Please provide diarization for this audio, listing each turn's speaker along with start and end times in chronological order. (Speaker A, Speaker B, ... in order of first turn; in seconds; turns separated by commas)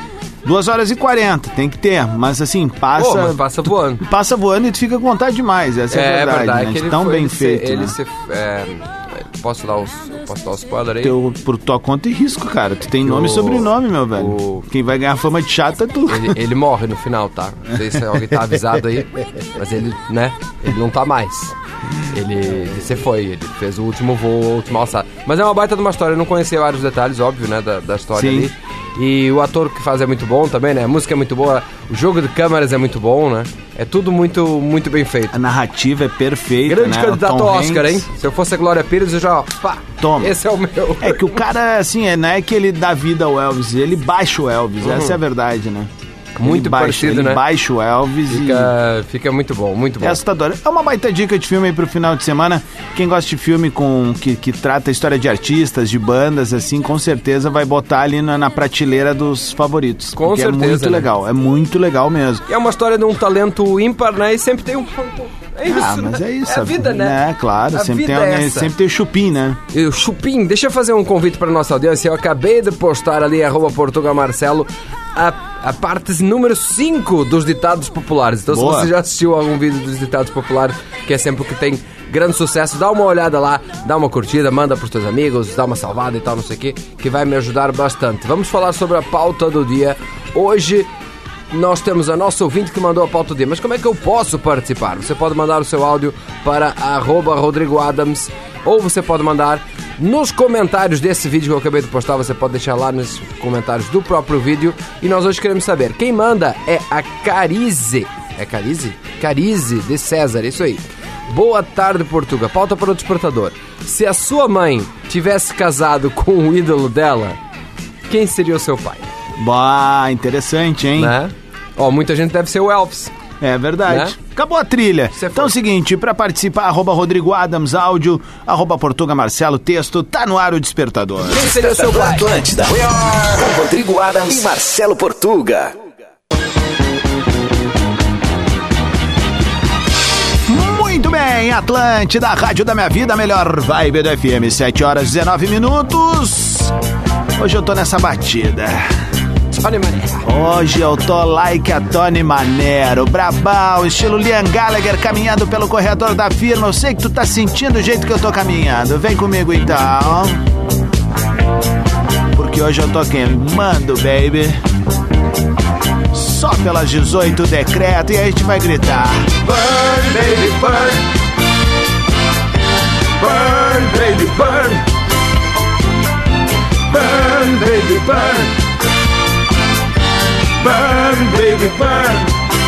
Speaker A: 0.4-3.4, Speaker B: 3.0-4.0, Speaker A: 4.0-8.0, Speaker B: 5.9-11.1, Speaker A: 11.0-16.4, Speaker B: 13.0-14.7, Speaker B: 16.1-21.5, Speaker B: 22.1-35.3, Speaker A: 28.1-28.5, Speaker A: 35.3-38.0, Speaker B: 36.6-41.4, Speaker A: 40.0-40.4, Speaker A: 41.0-45.9, Speaker B: 44.8-45.2, Speaker B: 46.4-47.4, Speaker A: 46.4-48.7, Speaker B: 48.3-50.2, Speaker A: 50.0-62.4, Speaker B: 60.1-61.1, Speaker B: 62.5-67.2, Speaker A: 65.6-69.6, Speaker B: 67.7-68.7, Speaker B: 69.7-90.9, Speaker A: 78.5-78.9, Speaker B: 91.5-117.4, Speaker B: 118.1-119.1, Speaker A: 119.4-121.1, Speaker B: 121.0-123.1, Speaker A: 123.4-131.5, Speaker B: 123.9-124.2, Speaker B: 125.1-125.5, Speaker B: 131.2-132.3, Speaker C: 131.5-135.7, Speaker A: 140.5-146.7, Speaker A: 147.4-148.8, Speaker B: 149.5-150.2, Speaker A: 150.2-160.4, Speaker A: 162.3-164.6, Speaker A: 166.1-171.0, Speaker A: 173.2-174.8, Speaker A: 176.9-178.5, Speaker A: 180.6-182.3